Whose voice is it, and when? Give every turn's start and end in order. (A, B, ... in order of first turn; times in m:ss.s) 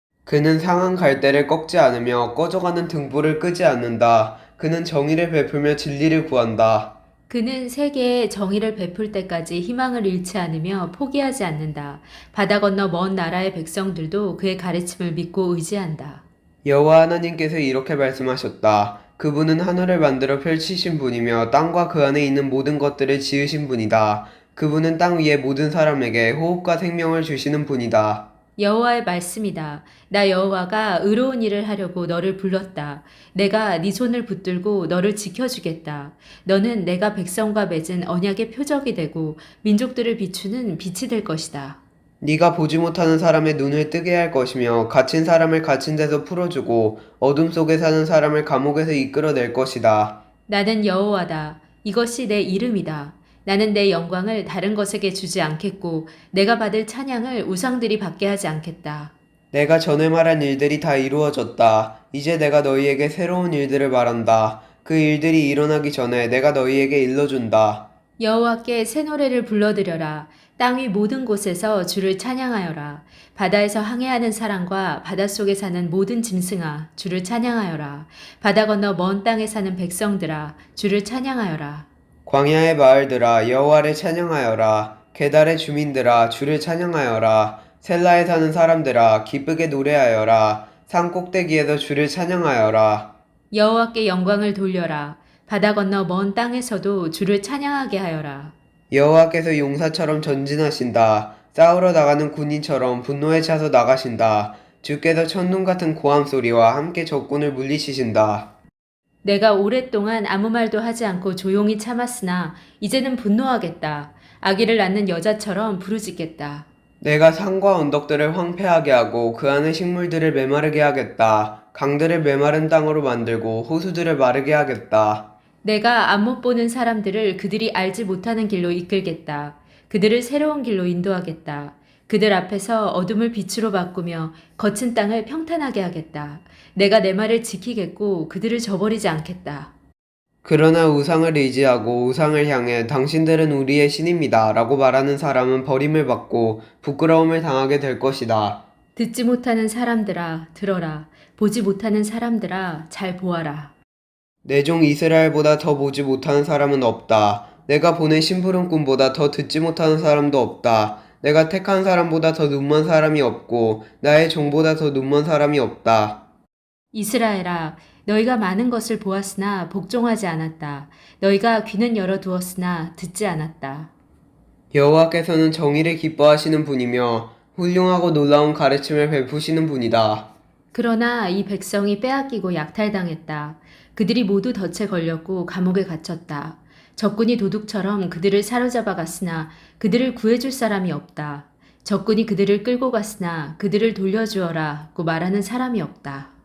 0:00.2-0:06.9 A
0:07.3-0:16.2 B
0:16.6-0:28.3 A
0:28.6-0:41.8 B
0:42.2-0:50.2 A
0:50.5-0:59.1 B
0:59.5-1:07.9 A
1:08.2-1:21.8 B
1:22.2-1:33.1 A
1:33.5-1:38.5 B
1:38.9-1:48.5 A
1:49.2-1:56.6 B
1:57.0-2:05.3 A
2:05.6-2:19.7 B
2:20.4-2:28.6 A
2:29.0-2:33.7 B
2:34.4-2:46.2 A
2:46.9-2:53.9 B
2:54.7-3:00.3 A
3:00.7-3:16.3 B